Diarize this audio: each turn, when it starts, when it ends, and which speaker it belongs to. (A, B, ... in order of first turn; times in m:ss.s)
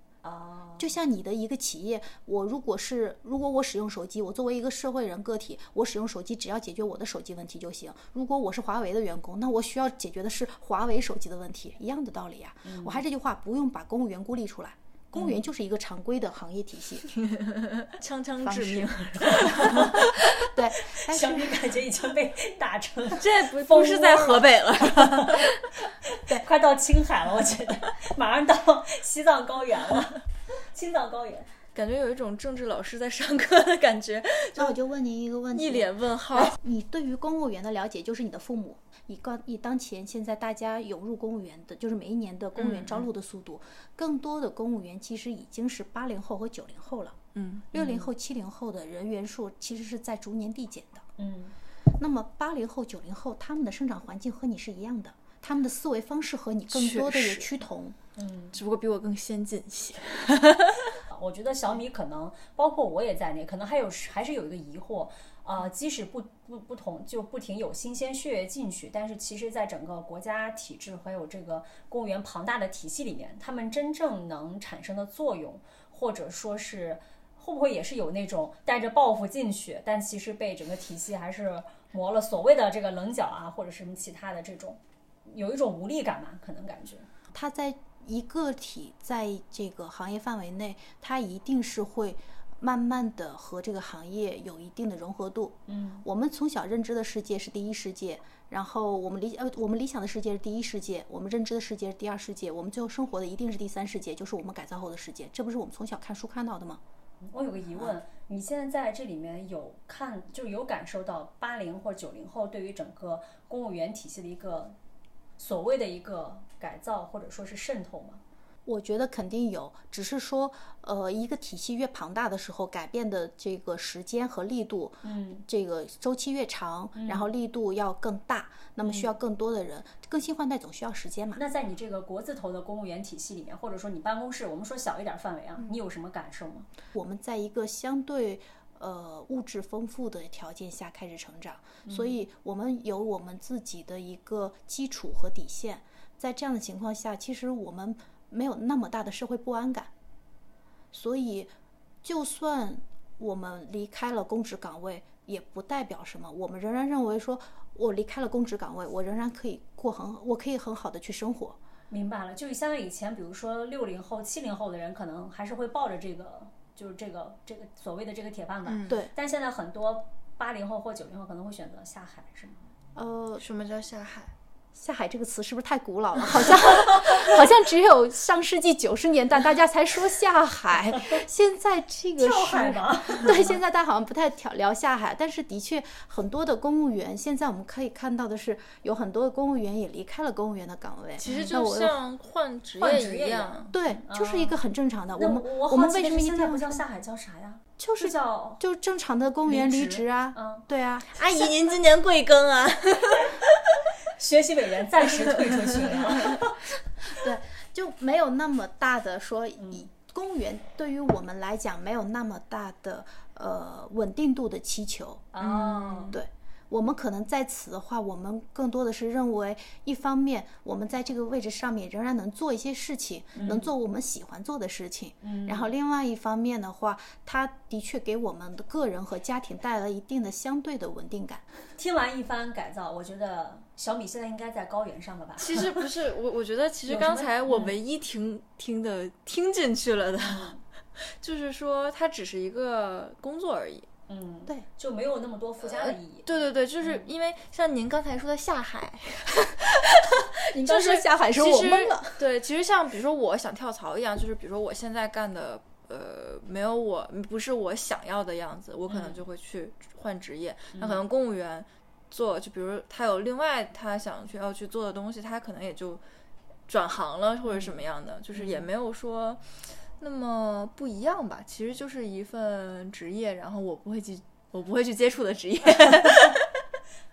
0:00.2-0:00.9 A
0:00.8-0:17.1 B
0:12.6-0:13.0 A
0:17.2-0:20.2 C
0:18.4-0:18.9 B
0:19.3-0:20.2 A
0:19.8-0:21.6 B
0:20.8-0:25.5 A
0:23.2-0:25.6 C
0:26.1-0:30.2 A
0:30.7-0:31.5 A
0:31.7-0:34.8 C
0:34.6-0:47.2 B
0:35.5-0:36.6 C
0:42.6-0:43.1 C
0:47.3-0:47.7 C
0:47.7-0:51.1 B
0:47.8-0:48.1 A
0:51.2-0:51.5 A
0:52.0-0:58.0 B
0:56.7-0:57.5 C
0:58.2-0:58.6 A
0:58.5-1:01.0 C
1:01.1-1:27.1 A
1:27.3-1:46.8 B
1:35.7-1:36.0 A
1:47.3-1:54.7 A
1:55.4-1:58.2 A
1:58.6-2:11.4 B
2:05.0-2:05.4 A
2:07.0-2:07.3 A
2:11.4-2:16.7 A
2:16.9-2:29.9 B
2:21.8-2:22.2 A
2:30.9-2:31.5 B
2:32.0-2:41.6 B
2:41.9-2:52.6 A
2:48.7-2:49.0 C
2:52.9-2:53.4 B
2:53.4-2:54.3 C
2:54.7-3:12.0 B
2:56.7-2:57.2 A
3:00.9-3:01.2 A
3:02.2-3:03.6 A
3:11.2-3:13.7 C
3:12.8-3:14.6 A
3:13.7-3:16.8 B
3:15.1-3:18.6 A
3:17.8-3:21.2 B
3:19.4-3:20.6 A
3:21.1-3:23.4 C
3:24.1-3:26.6 A
3:27.0-3:35.3 B
3:29.6-3:29.9 A
3:35.3-3:36.2 A
3:35.4-3:36.1 C
3:36.1-3:51.4 B
3:43.3-3:43.7 A
3:45.2-3:45.7 A
3:51.8-3:55.8 A
3:55.4-4:03.9 C
3:56.9-3:57.8 A
4:00.2-4:00.6 A
4:04.1-4:06.3 A
4:05.8-4:26.0 C
4:06.8-4:07.1 A
4:10.4-4:12.2 B
4:18.9-4:19.2 A
4:20.7-4:21.0 A
4:26.7-4:29.4 C
4:27.4-4:27.8 A
4:28.4-4:28.6 A
4:30.0-4:36.5 C